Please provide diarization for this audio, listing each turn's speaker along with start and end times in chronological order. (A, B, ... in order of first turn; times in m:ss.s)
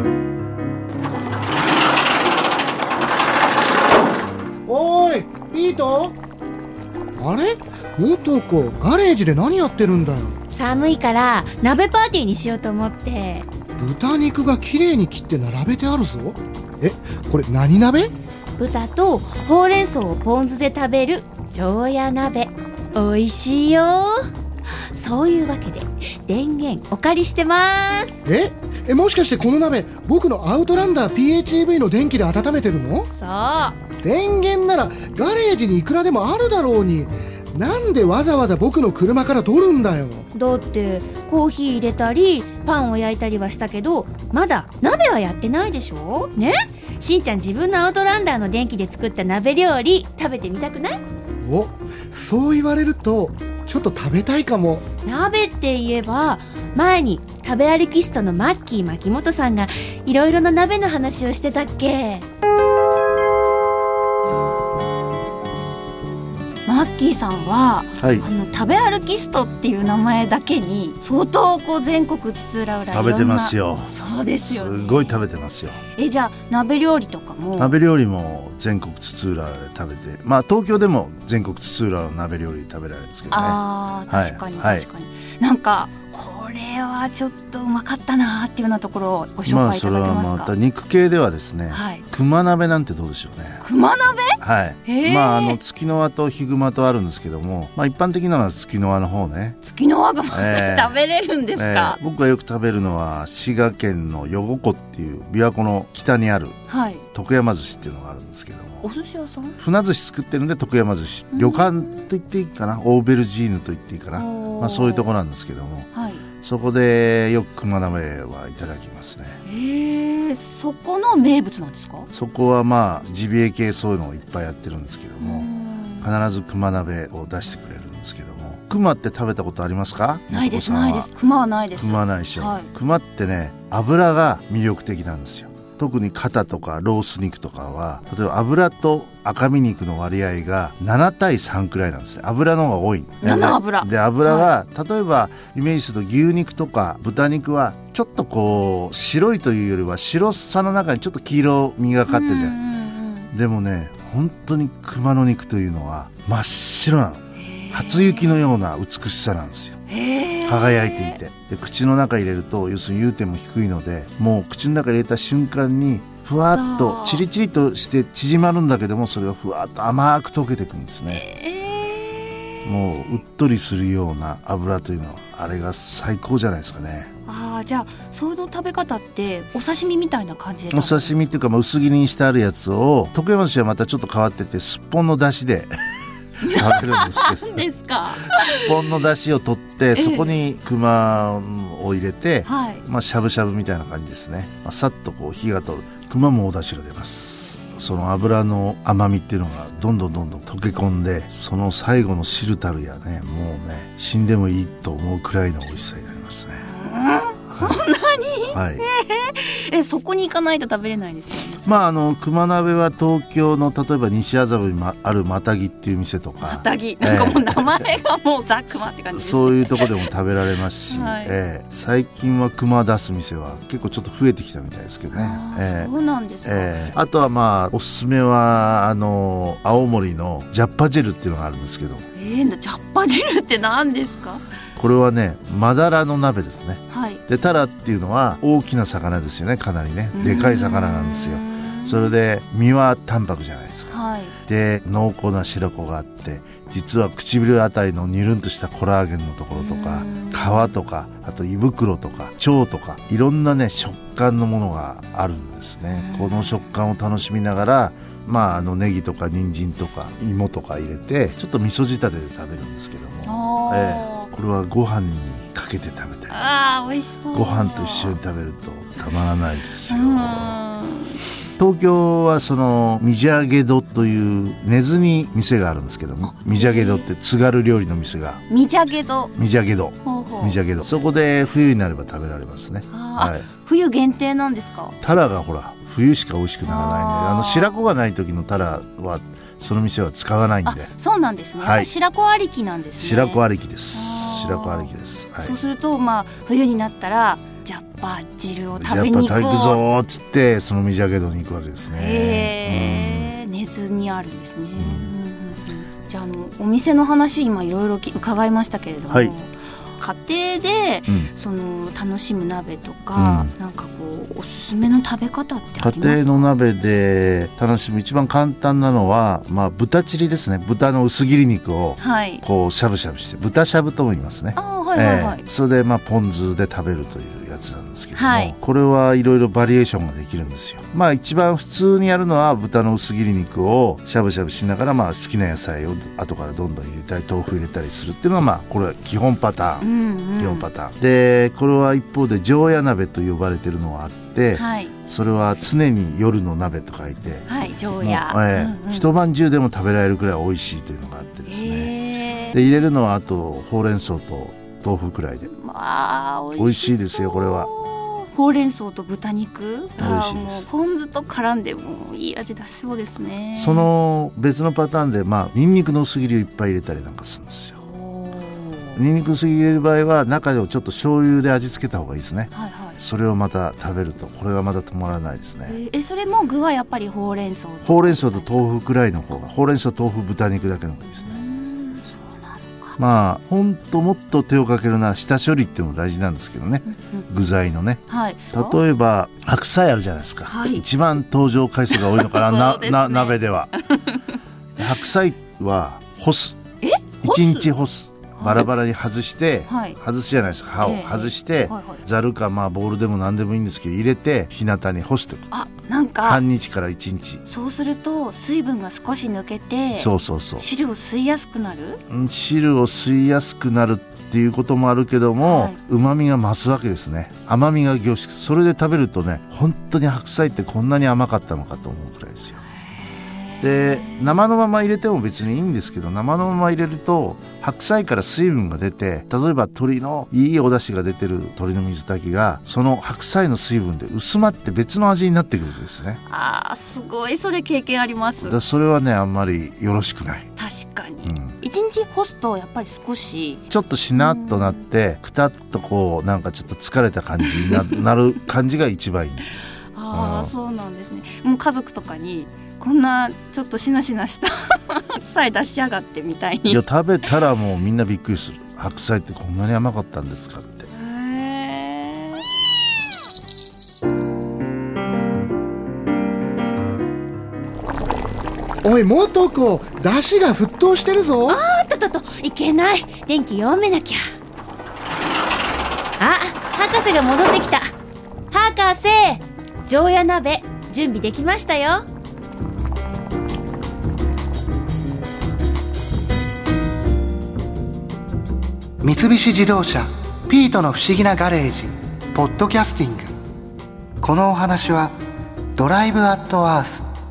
0:04.7-0:06.2 A
0:07.2-0:10.4 A
0:10.5-0:13.5 B
0:13.8-0:18.1 A
0:18.6-0:24.2 B
0:24.9-0:28.2 B
0:28.2-0:33.1 A
0:33.1-0:33.8 B
0:34.0-0:40.2 A
0:40.3-0:51.0 B
0:51.4-0:54.8 A
0:55.0-1:02.2 B
1:06.6-1:15.2 C
1:08.0-1:08.3 D
1:12.9-1:15.8 D
1:15.9-1:17.8 C
1:17.6-1:24.8 D
1:23.3-1:30.5 C
1:29.4-1:33.6 D
1:31.7-1:32.0 C
1:33.6-1:35.6 C
1:34.4-1:39.6 D
1:39.6-1:42.0 C
1:40.3-1:41.0 D
1:41.6-1:46.6 D
1:46.7-1:47.0 C
1:47.1-1:48.9 D
1:48.8-1:49.6 C
1:49.6-1:59.4 D
1:51.3-1:51.7 C
1:54.1-1:55.1 C
1:55.9-1:56.2 C
1:59.4-2:02.1 C
2:02.1-2:05.5 D
2:05.2-2:06.1 C
2:06.0-2:11.1 D
2:10.3-2:12.7 C
2:11.8-2:32.6 D
2:23.2-2:24.5 C
2:32.1-2:33.3 C
2:33.3-2:39.8 D
2:37.4-2:38.4 C
2:39.9-2:41.2 C
2:40.4-2:51.2 D
2:46.5-2:47.2 C
2:51.1-2:52.6 C
2:52.6-2:57.1 D
2:57.2-3:01.2 C
3:00.7-3:05.7 D
3:06.4-3:07.6 D
3:06.4-3:08.7 C
3:08.2-3:26.6 D
3:09.9-3:10.4 C
3:12.4-3:12.8 C
3:26.6-3:31.7 C
3:27.5-3:27.8 D
3:28.5-3:28.8 D
3:31.6-3:37.7 D
3:36.4-3:40.1 C
3:38.7-3:45.9 D
3:40.9-3:41.4 C
3:45.1-3:46.9 C
3:46.4-3:52.1 D
3:52.1-3:54.4 C
3:54.8-4:26.4 D
3:56.9-3:57.2 C
4:00.1-4:02.1 C
4:03.9-4:04.3 C
4:09.5-4:10.7 C
4:15.9-4:16.6 C
4:23.2-4:24.3 C
4:26.3-4:28.2 C
4:27.3-4:30.6 D
4:29.9-4:31.2 C
4:31.6-4:38.4 D
4:36.2-4:37.0 C
4:38.5-4:39.3 C
4:39.3-4:43.5 D
4:40.0-4:40.6 C
4:42.9-4:45.0 C
4:45.0-4:50.9 D
4:46.6-4:47.7 C
4:50.7-4:59.8 C
4:51.6-4:51.9 D
4:53.0-4:55.5 D
4:58.7-5:03.4 D
5:01.9-5:16.5 C
5:04.8-5:05.1 D
5:13.2-5:13.5 D
5:15.8-5:39.8 D
5:22.0-5:22.4 C
5:24.6-5:25.4 C
5:28.2-5:28.5 C
5:39.8-5:40.6 C
5:40.4-5:47.5 D
5:44.5-5:44.9 C
5:47.5-5:49.1 C
5:48.0-5:51.9 D
5:51.5-5:52.6 C
5:52.5-5:55.5 D
5:55.5-6:03.9 C
5:56.6-5:57.7 D
6:00.0-6:00.6 D
6:03.6-6:07.7 D
6:07.7-6:09.0 C
6:09.0-6:15.8 D
6:12.5-6:13.0 C
6:15.7-6:18.8 C
6:17.8-6:21.4 D
6:21.2-6:23.0 C
6:23.0-6:33.7 D
6:26.9-6:27.2 C
6:28.1-6:28.8 C
6:30.5-6:30.8 C
6:31.9-6:34.2 C
6:34.8-6:36.6 D
6:36.8-6:37.7 C
6:37.2-6:45.4 D
6:38.4-6:38.7 C
6:39.7-6:40.0 C
6:40.8-6:42.0 C
6:45.5-6:46.4 C
6:46.2-6:47.4 D
6:47.4-6:52.0 C
6:50.0-6:50.6 D
6:52.1-7:02.6 D
6:55.4-6:55.8 C
7:03.2-7:04.3 C
7:03.6-7:16.2 D
7:16.2-7:18.6 C
7:18.4-7:20.5 D
7:20.6-7:23.6 C
7:21.2-7:21.6 D
7:23.7-7:29.4 D
7:24.2-7:24.8 C
7:27.4-7:28.0 C
7:29.9-7:36.8 C
7:30.1-7:30.5 D
7:36.7-7:40.9 D
7:40.9-7:42.4 C
7:48.8-7:51.6 A
7:51.4-7:54.2 B
7:56.2-7:57.9 B
7:58.5-8:02.0 B
8:09.0-8:13.3 E
8:14.2-8:15.1 E
8:15.7-8:17.0 E